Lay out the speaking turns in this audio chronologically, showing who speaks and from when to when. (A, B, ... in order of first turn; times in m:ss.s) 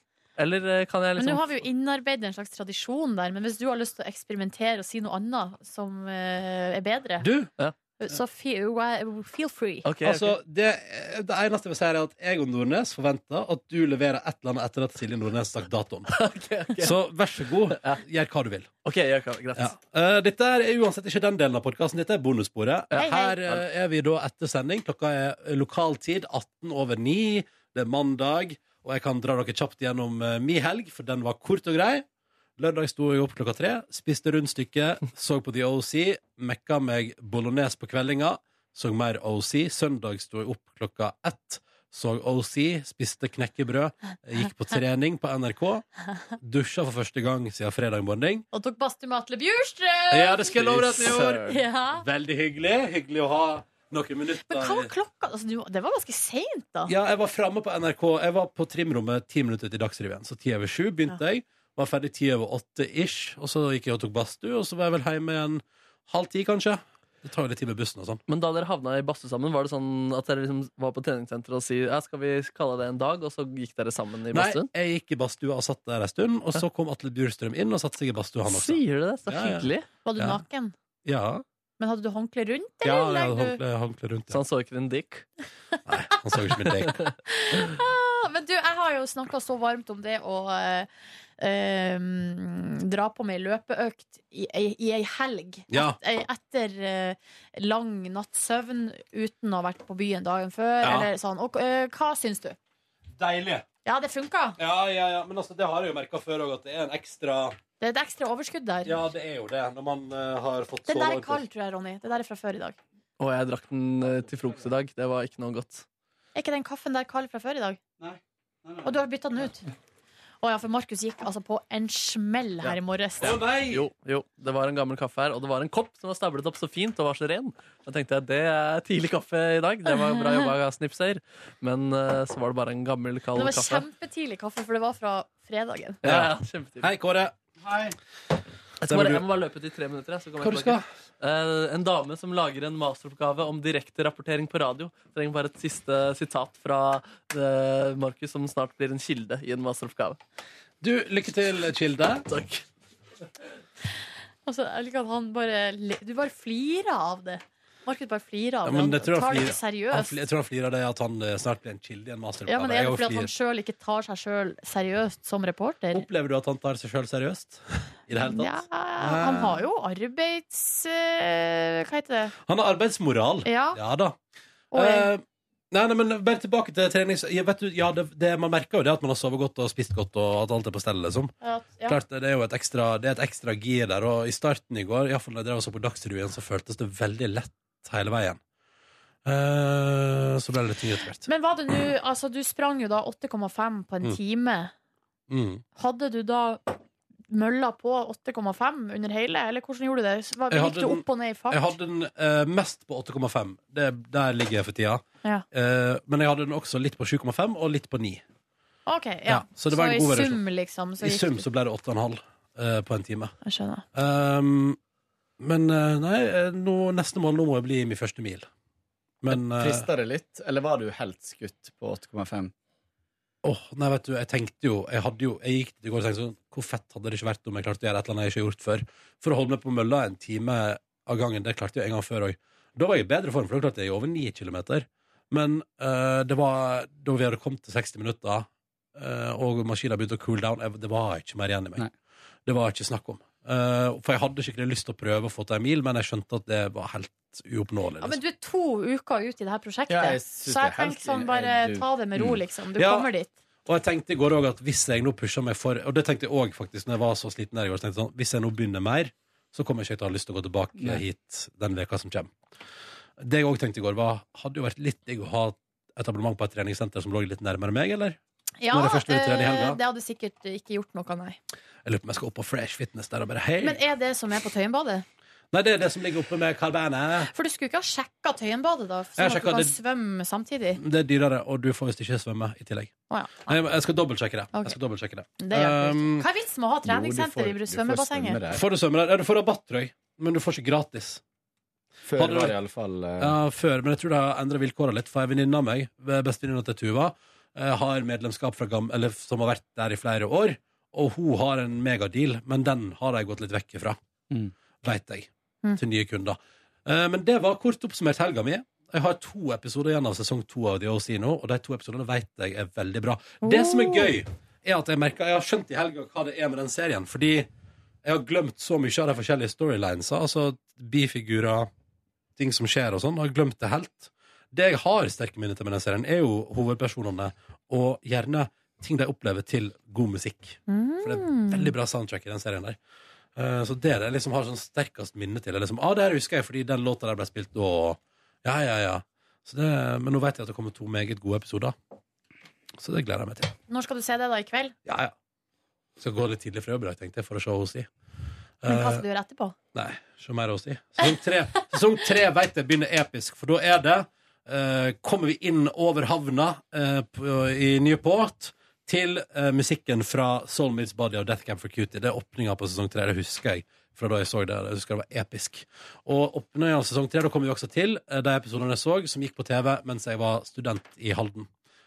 0:00.4-0:01.6 A
0:01.2-0:07.3 B
0:07.2-0:07.5 C
0:08.0-0:09.8 B
0:09.8-0:10.4 A
0:10.0-0:16.1 C
0:16.1-0:17.0 A
0:16.8-0:18.7 C
0:17.7-0:18.0 A
0:18.8-0:19.7 A
0:19.6-0:32.0 C
0:22.9-0:23.6 A
0:23.0-0:23.4 B
0:32.6-0:45.8 C
0:46.4-0:48.4 C
0:48.5-0:52.0 B
0:50.1-0:54.9 C
0:50.8-0:51.5 A
0:54.5-0:56.9 B
0:56.8-1:08.2 C
1:08.3-1:14.7 A
1:14.3-1:20.4 C
1:18.5-1:19.9 A
1:20.0-1:20.7 B
1:21.0-1:21.4 C
1:21.8-1:23.6 B
1:22.8-1:24.4 C
1:24.3-1:25.2 A
1:25.9-1:27.0 C
1:27.3-1:42.6 B
1:35.7-1:36.0 C
1:40.8-1:41.1 C
1:43.2-1:43.6 C
1:43.8-1:44.6 B
1:44.6-1:47.6 C
1:47.8-1:49.0 B
1:48.8-1:51.4 C
1:50.9-1:52.8 B
1:53.2-1:55.8 A
1:56.3-1:57.8 B
1:58.0-1:58.9 D
1:58.8-1:59.6 B
2:00.4-2:03.4 B
2:03.2-2:03.8 C
2:03.7-2:13.8 A
2:10.2-2:10.4 B
2:13.3-2:16.0 B
2:16.0-2:16.9 A
2:16.0-2:17.9 C
2:17.6-2:17.9 D
2:18.8-2:30.2 A
2:18.8-2:19.2 C
2:20.4-2:20.8 C
2:30.8-2:32.3 C
2:32.3-2:32.6 A
2:34.4-2:40.2 B
2:38.6-2:43.3 C
2:42.5-2:46.0 B
2:45.9-2:49.6 C
2:48.2-2:52.3 B
2:52.4-2:54.2 C
2:53.4-2:53.8 B
2:54.7-2:55.1 B
2:54.7-3:01.3 C
3:01.4-3:02.0 B
3:01.8-3:08.4 C
3:09.2-3:11.3 C
3:11.2-3:14.7 B
3:15.3-3:15.6 C
3:15.8-3:16.7 B
3:17.3-3:21.7 B
3:20.5-3:28.2 C
3:28.9-3:31.4 B
3:29.3-3:30.4 C
3:31.0-3:33.3 C
3:33.4-3:33.8 B
3:33.9-3:34.8 C
3:35.4-3:38.5 C
3:39.2-3:39.9 C
3:39.3-3:42.5 D
3:43.4-4:01.9 C
4:02.4-4:08.2 C
4:08.0-4:13.3 B
4:09.9-4:11.9 D
4:12.2-4:13.1 C
4:13.6-4:22.3 C
4:20.8-4:21.0 D
4:23.2-4:28.2 C
4:28.6-4:31.4 B
4:28.7-4:29.8 C
4:31.8-4:33.8 C
4:33.6-4:35.0 B
4:35.5-4:37.3 C
4:37.3-4:40.8 B
4:39.2-4:39.7 C
4:40.8-4:42.9 C
4:43.1-4:43.6 B
4:43.4-4:46.3 C
4:44.5-4:44.8 B
4:45.4-4:48.4 B
4:46.8-4:48.6 D
4:48.5-4:51.2 C
4:52.0-4:53.4 D
4:52.2-4:52.5 C
4:53.2-5:04.0 C
5:04.8-5:17.5 C
5:13.4-5:14.1 B
5:18.0-5:21.7 C
5:22.4-5:32.8 C
5:30.7-5:31.7 B
5:33.4-5:41.8 C
5:42.8-5:43.5 C
5:43.7-5:44.7 B
5:44.8-5:45.1 C
5:46.0-5:47.9 C
5:48.6-5:49.0 C
5:48.6-5:49.5 B
5:49.7-6:11.5 C